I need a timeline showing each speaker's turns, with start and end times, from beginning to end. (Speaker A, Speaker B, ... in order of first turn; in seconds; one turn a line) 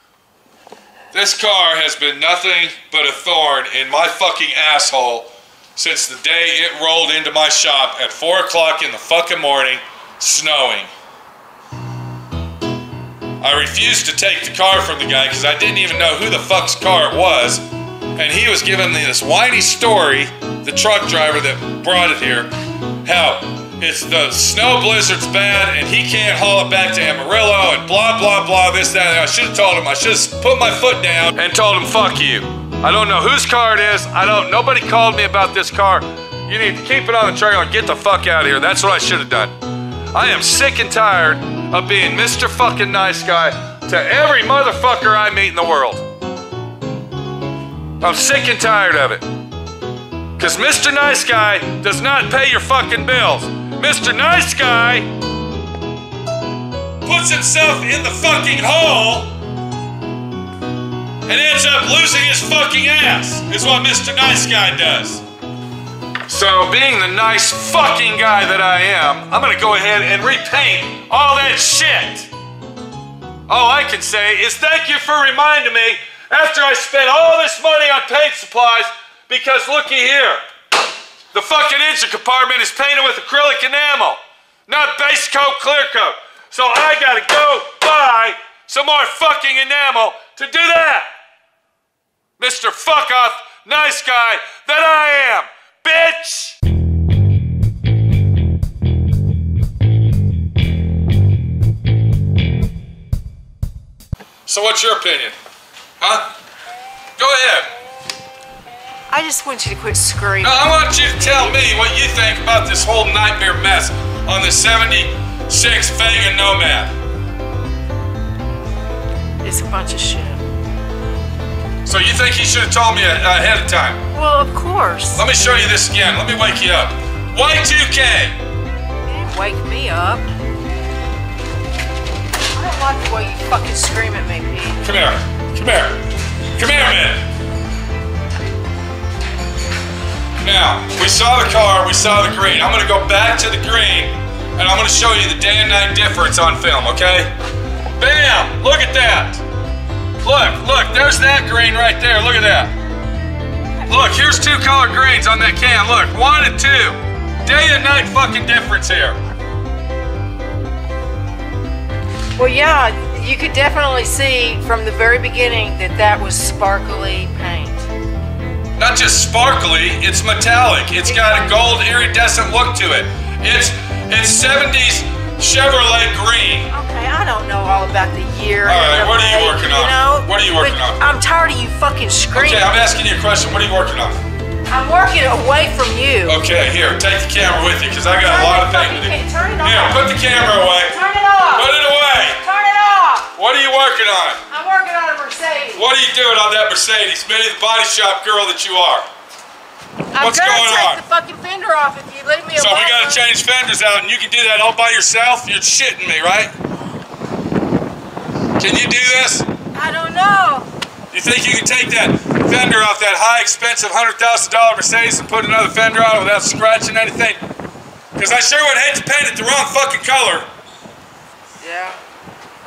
Speaker A: 1.1-10.9
Speaker A: 13.4-17.6
Speaker A: 18.1-22.5
Speaker A: 23.0-39.5
Speaker A: 40.1-46.0
Speaker A: 48.0-49.2
Speaker A: 50.4-55.1
Speaker A: 57.0-59.3
Speaker A: 61.2-65.2
Speaker A: 66.3-72.3
Speaker A: 73.5-80.4
Speaker A: 81.3-91.1
Speaker A: 92.4-96.5
Speaker A: 104.5-105.3
Speaker A: 106.0-106.3
Speaker A: 107.2-107.7
Speaker B: 109.1-111.5
Speaker A: 110.4-116.9
Speaker B: 119.4-120.4
Speaker A: 121.8-124.0
Speaker B: 124.1-125.2
Speaker A: 125.1-128.4
Speaker B: 129.0-130.2
Speaker B: 132.6-134.8
Speaker A: 134.8-136.0
Speaker A: 136.6-137.2
Speaker A: 140.4-147.3
Speaker A: 148.0-149.4
Speaker A: 150.2-152.7
Speaker A: 153.9-159.2
Speaker B: 162.4-167.9
Speaker A: 168.8-176.7
Speaker B: 171.1-171.6
Speaker B: 176.7-182.7
Speaker A: 178.6-181.0
Speaker A: 182.3-184.2
Speaker B: 184.7-186.4
Speaker A: 186.2-191.0
Speaker B: 188.2-190.1
Speaker B: 190.8-191.7
Speaker A: 191.5-192.4
Speaker B: 192.3-193.3
Speaker A: 193.3-194.4
Speaker B: 194.5-195.8
Speaker A: 195.7-199.1
Speaker B: 200.1-203.2
Speaker A: 200.2-201.0
Speaker A: 202.5-206.5
Speaker A: 208.6-209.5
Speaker B: 209.7-210.7
Speaker A: 211.1-217.4
Speaker A: 218.2-220.5
Speaker B: 221.6-222.0